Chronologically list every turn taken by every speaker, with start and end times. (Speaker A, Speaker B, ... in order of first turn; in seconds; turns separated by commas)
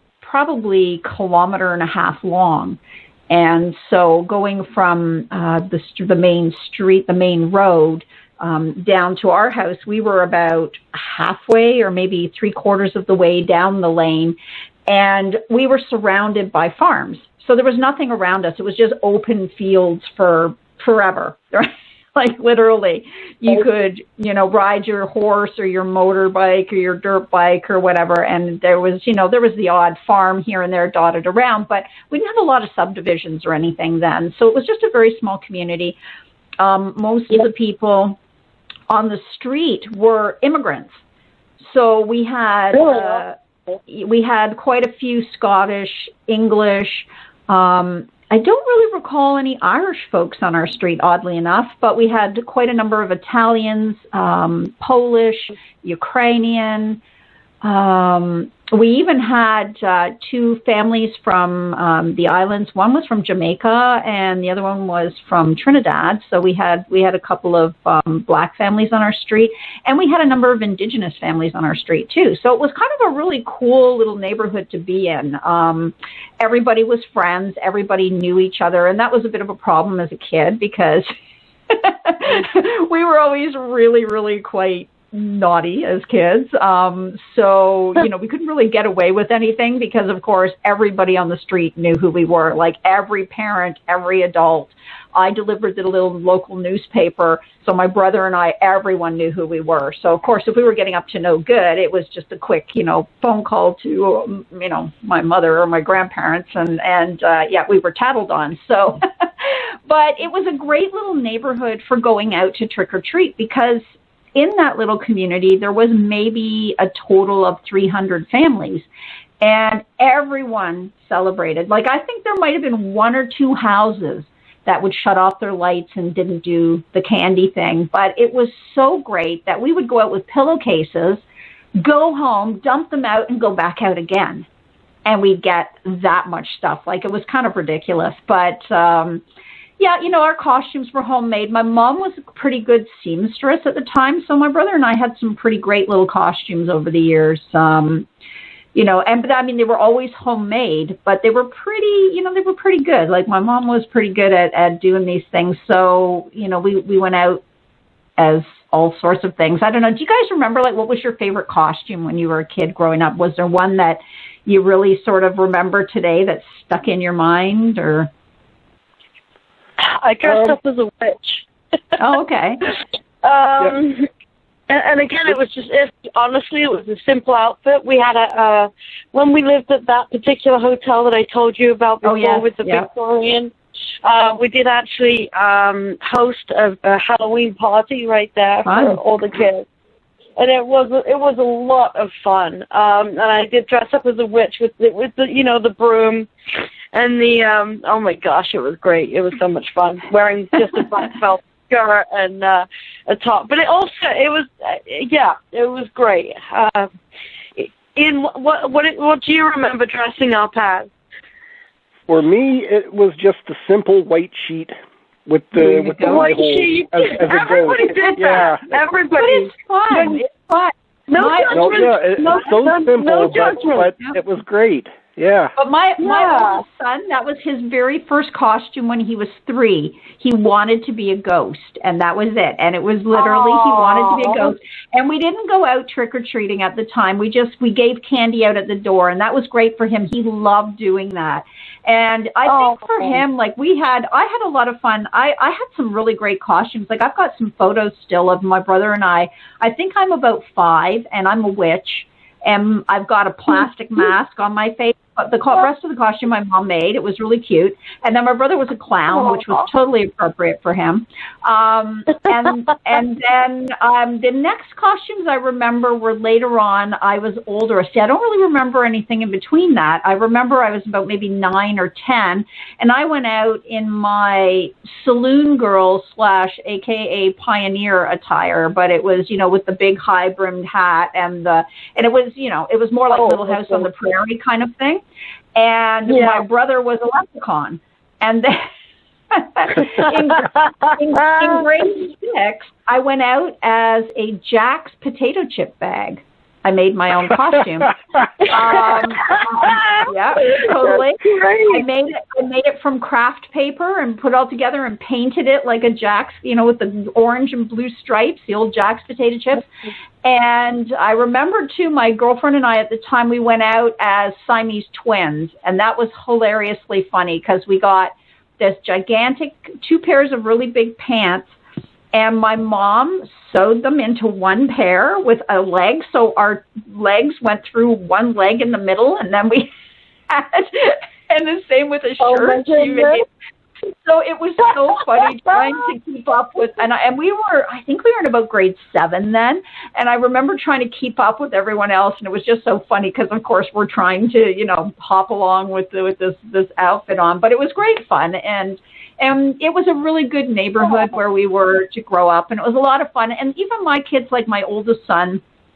Speaker A: 0.2-14.4, Speaker A: 14.9-36.0, Speaker A: 36.6-38.2, Speaker A: 38.9-41.0, Speaker A: 41.6-43.4, Speaker B: 42.8-43.2, Speaker A: 43.9-57.0, Speaker A: 57.6-81.1, Speaker A: 81.7-113.8, Speaker A: 114.3-118.9, Speaker A: 119.4-131.2, Speaker A: 131.8-134.5, Speaker A: 135.1-139.2, Speaker A: 139.8-148.1, Speaker A: 148.8-157.4, Speaker A: 158.2-168.1, Speaker B: 169.8-171.5, Speaker C: 170.2-170.6, Speaker A: 172.0-172.7, Speaker B: 173.2-174.1, Speaker B: 174.7-189.7, Speaker A: 182.0-182.9, Speaker A: 188.7-189.0, Speaker B: 190.4-196.3, Speaker B: 196.9-206.9, Speaker B: 207.6-210.9, Speaker C: 212.1-214.7, Speaker C: 215.3-218.8, Speaker A: 215.6-216.4, Speaker B: 216.0-220.2, Speaker A: 219.2-221.9, Speaker B: 221.1-223.9, Speaker C: 221.5-225.6, Speaker A: 225.6-285.0, Speaker B: 226.0-226.6, Speaker B: 233.2-234.5, Speaker B: 242.5-243.2, Speaker B: 259.3-259.5, Speaker B: 283.1-283.9, Speaker A: 285.6-288.7, Speaker B: 286.1-286.4, Speaker A: 289.3-309.7, Speaker B: 291.2-291.6, Speaker B: 298.4-301.8, Speaker A: 310.2-321.5, Speaker A: 322.1-329.7, Speaker A: 330.3-333.2, Speaker B: 332.2-333.2, Speaker A: 334.0-355.4